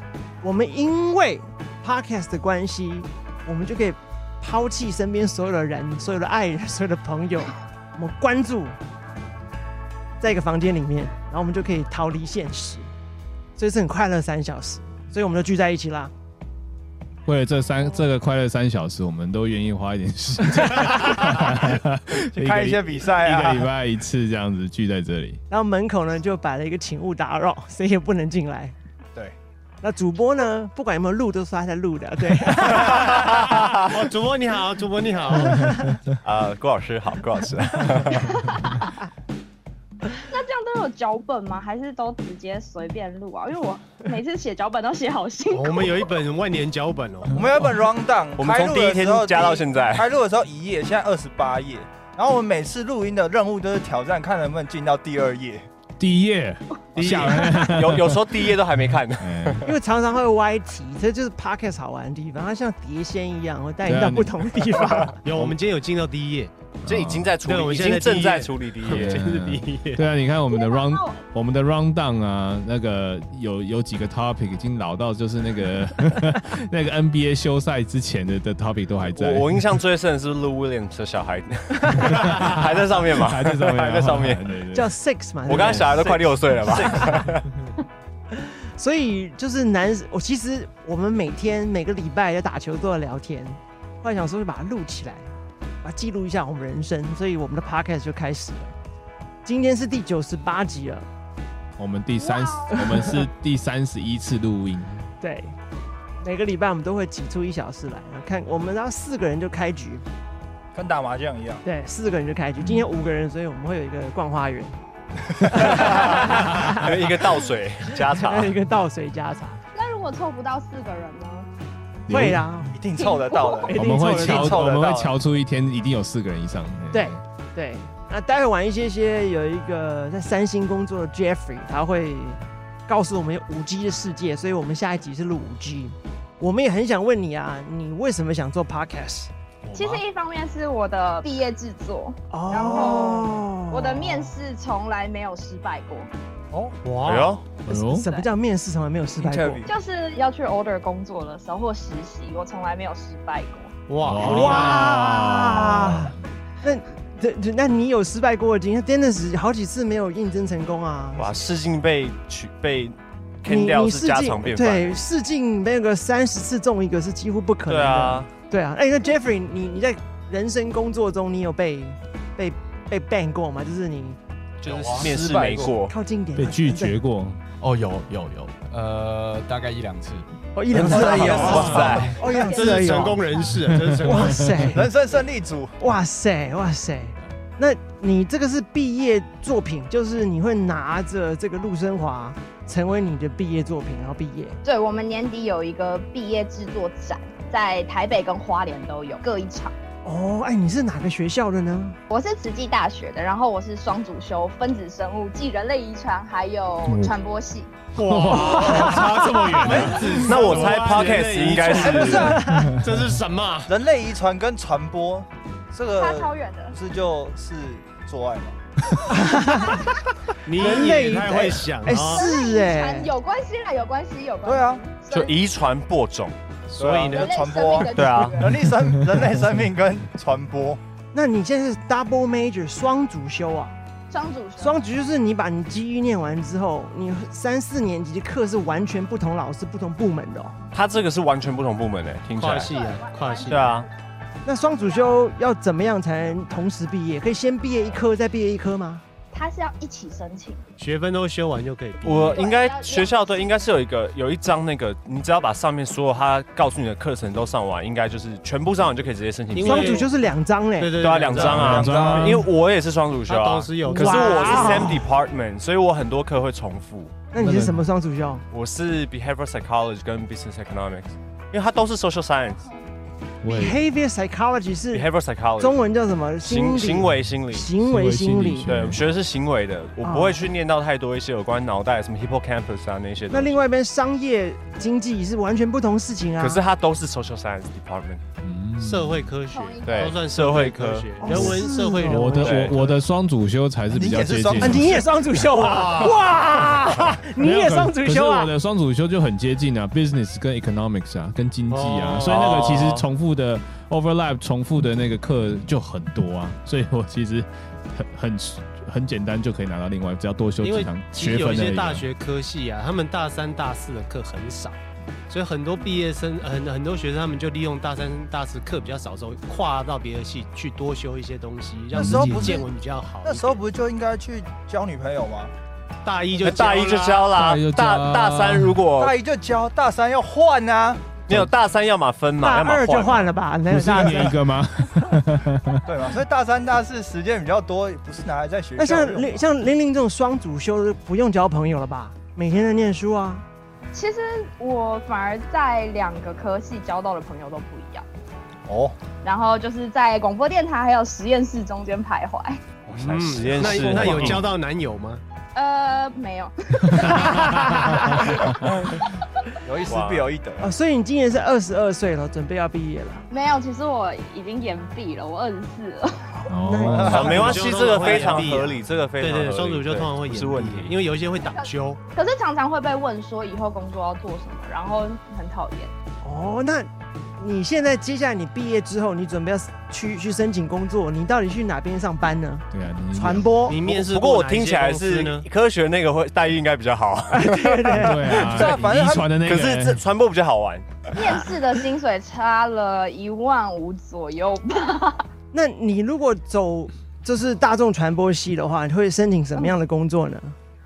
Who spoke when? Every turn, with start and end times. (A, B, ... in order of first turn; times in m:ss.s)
0:00.4-0:08.8 A
0:10.2-0:12.9 A
0:13.6-0:16.1 A
0:17.3-0:25.4 B
0:22.1-0:23.7 C
0:25.5-0:28.8 A
0:29.8-0:33.6 A
0:33.8-0:35.8 D
0:36.2-0:38.3 E
0:38.1-0:38.9 F
0:40.1-0:46.0 F
0:45.5-0:47.5 D
0:47.3-0:55.7 C
0:48.4-0:50.1 E
0:56.0-0:58.6 B
0:57.0-0:57.5 D
0:57.0-0:59.6 E
0:59.2-0:59.6 B
0:59.6-1:05.2 A
1:03.8-1:04.6 B
1:05.2-1:06.5 D
1:06.8-1:07.3 B
1:06.9-1:09.2 E
1:07.4-1:10.0 D
1:08.9-1:19.6 B
1:10.5-1:11.2 F
1:19.1-1:24.6 E
1:22.0-1:22.6 B
1:23.1-1:24.9 B
1:24.7-1:27.0 A
1:25.5-1:27.5 E
1:25.5-1:25.8 B
1:26.6-1:27.1 C
1:28.3-1:35.3 A
1:35.8-1:38.7 A
1:39.4-1:41.1 A
1:41.8-1:45.1 B
1:42.2-1:42.8 F
1:42.8-1:43.2 A
1:45.2-1:45.6 A
1:46.2-1:50.0 A
1:50.7-1:51.6 C
1:51.6-1:54.8 A
1:52.6-1:52.9 B
1:55.4-1:57.2 A
1:55.6-1:56.1 C
1:55.7-1:58.6 E
1:58.1-1:59.6 A
1:59.7-2:01.5 F
2:02.1-2:02.5 B
2:02.1-2:02.8 A
2:02.7-2:05.1 C
2:03.0-2:04.2 F
2:03.7-2:04.7 A
2:03.8-2:07.2 B
2:06.9-2:19.3 A
2:19.7-2:20.0 D
2:19.7-2:26.1 F
2:22.3-2:24.3 A
2:22.7-2:23.0 C
2:26.5-2:26.8 C
2:26.8-2:27.6 D
2:27.0-2:27.4 E
2:27.7-2:28.1 B
2:27.7-2:28.3 F
2:27.8-2:29.7 A
2:29.2-2:29.7 E
2:29.7-2:33.7 F
2:33.9-2:34.9 D
2:34.0-2:36.2 B
2:34.2-2:41.3 A
2:41.2-2:45.0 E
2:43.5-2:54.2 A
2:47.7-2:48.3 E
2:54.6-2:55.9 E
2:54.6-2:55.8 C
2:55.9-2:57.0 A
2:56.4-2:57.5 B
2:57.6-3:00.2 G
3:00.6-3:03.3 A
3:00.7-3:02.2 E
3:00.9-3:02.4 C
3:01.1-3:01.5 D
3:01.5-3:02.0 B
3:02.3-3:04.7 D
3:03.7-3:04.3 B
3:04.0-3:04.9 A
3:04.7-3:05.8 C
3:05.8-3:14.6 A
3:14.6-3:19.8 F
3:20.0-3:22.0 A
3:22.1-3:30.1 F
3:28.0-3:33.8 D
3:28.0-3:30.1 B
3:30.2-3:32.4 E
3:31.6-3:32.5 C
3:32.1-3:32.7 A
3:33.7-3:38.6 C
3:35.9-3:36.8 F
3:39.1-3:39.9 A
3:39.4-3:39.9 F
3:40.5-3:42.2 D
3:40.6-3:43.1 A
3:40.8-3:41.2 C
3:42.0-3:45.4 F
3:44.4-3:44.8 C
3:45.1-3:46.4 E
3:46.7-3:47.9 D
3:46.8-3:50.8 C
3:47.1-3:48.6 F
3:47.9-3:48.4 E
3:48.7-3:49.1 B
3:51.1-3:53.8 A
3:54.1-3:54.8 F
3:54.6-4:00.6 A
4:00.7-4:02.8 E
4:02.3-4:03.8 D
4:02.6-4:03.6 F
4:03.5-4:03.9 E
4:04.4-4:09.0 A
4:04.6-4:05.2 F
4:09.3-4:10.6 F
4:10.8-4:12.6 D
4:12.0-4:20.1 E
4:12.3-4:13.6 F
4:19.5-4:20.1 D
4:19.6-4:20.9 A
4:20.8-4:22.0 D
4:21.0-4:27.2 E
4:21.4-4:22.4 C
4:21.4-4:22.5 B
4:23.3-4:25.0 D
4:23.9-4:25.1 A
4:27.3-4:28.4 A
4:27.4-4:27.9 B
4:28.5-4:32.7 E
4:33.4-4:33.8 B
4:33.5-4:38.7 A
4:34.9-4:35.8 E
4:36.4-4:37.7 E
4:37.8-4:39.0 B
4:38.7-4:43.6 E
4:40.0-4:40.4 A
4:43.3-4:46.6 A
4:46.4-4:48.2 E
4:48.4-4:49.3 B
4:48.8-4:53.0 D
4:49.5-4:50.1 F
4:49.8-4:51.1 E
4:51.2-4:52.5 A
4:51.3-4:55.0 B
4:52.4-4:52.8 E
4:53.9-4:55.2 C
4:54.6-4:58.5 A
4:55.5-4:56.2 D
4:57.2-5:12.1 B
5:01.7-5:03.1 D
5:10.6-5:14.8 D
5:15.3-5:23.6 D
5:21.9-5:22.7 C
5:22.0-5:22.6 B
5:23.2-5:25.5 C
5:26.0-5:27.3 D
5:26.4-5:29.2 E
5:27.3-5:28.8 B
5:29.0-5:31.2 C
5:31.3-5:33.3 E
5:32.4-5:34.4 A
5:33.7-5:35.8 B
5:35.9-5:39.4 C
5:38.8-5:43.4 A
5:43.9-5:48.0 F
5:48.7-5:49.0 C
5:49.2-5:52.8 F
5:52.9-5:54.5 E
5:52.9-5:55.2 D
5:55.5-5:59.3 F
5:57.4-5:57.9 A
5:59.6-6:00.7 C
5:59.9-6:00.3 E
6:00.6-6:03.3 A
6:03.3-6:06.3 F
6:06.4-6:07.7 A
6:06.5-6:07.4 B
6:06.9-6:07.7 C
6:07.0-6:11.0 E
6:07.1-6:12.0 D
6:11.5-6:15.9 F
6:16.2-6:23.8 A
6:22.7-6:23.6 B
6:23.7-6:25.5 D
6:23.8-6:31.2 E
6:27.3-6:28.5 A
6:28.0-6:30.0 B
6:28.4-6:29.3 C
6:31.2-6:35.2 F
6:35.5-6:40.6 A